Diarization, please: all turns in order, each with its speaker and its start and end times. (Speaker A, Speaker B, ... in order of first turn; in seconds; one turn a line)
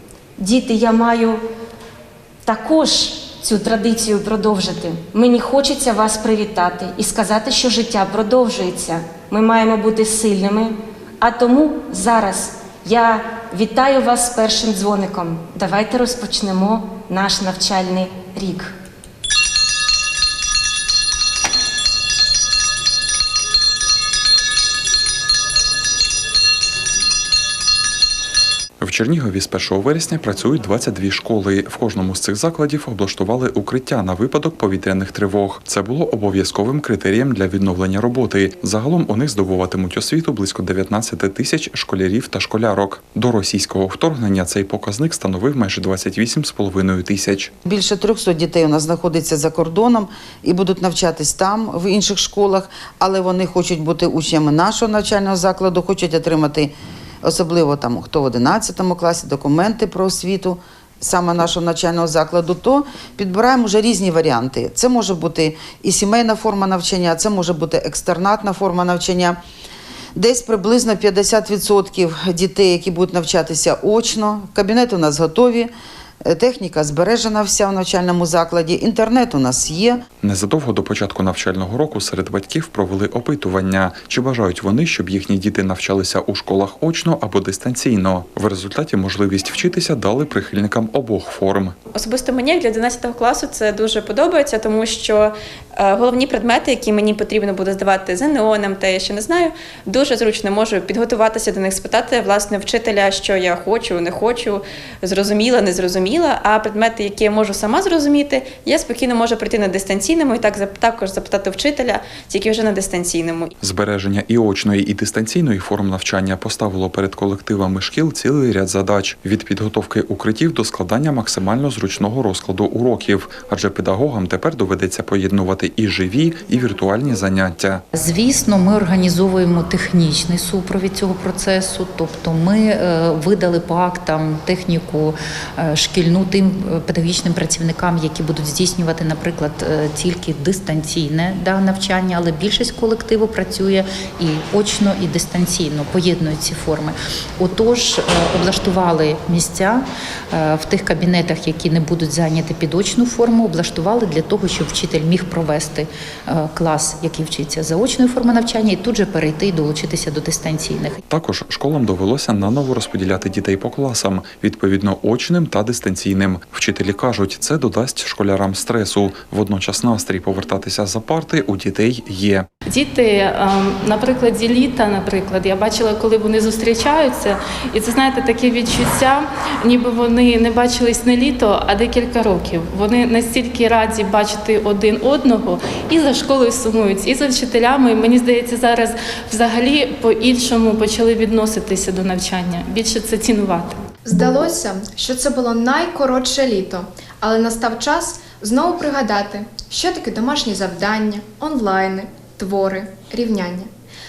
Speaker A: 0.4-1.4
Speaker A: 2.4-18.7
Speaker B: 28.8-47.5
Speaker C: 47.6-56.7
Speaker C: 57.2-69.4
Speaker C: 70.1-75.7
Speaker C: 76.2-80.0
Speaker B: 80.2-91.7
Speaker D: 91.9-113.5
Speaker B: 113.6-127.8
Speaker E: 127.9-161.0
Speaker B: 161.1-172.4
Speaker F: 172.7-193.8
Speaker G: 194.0-203.7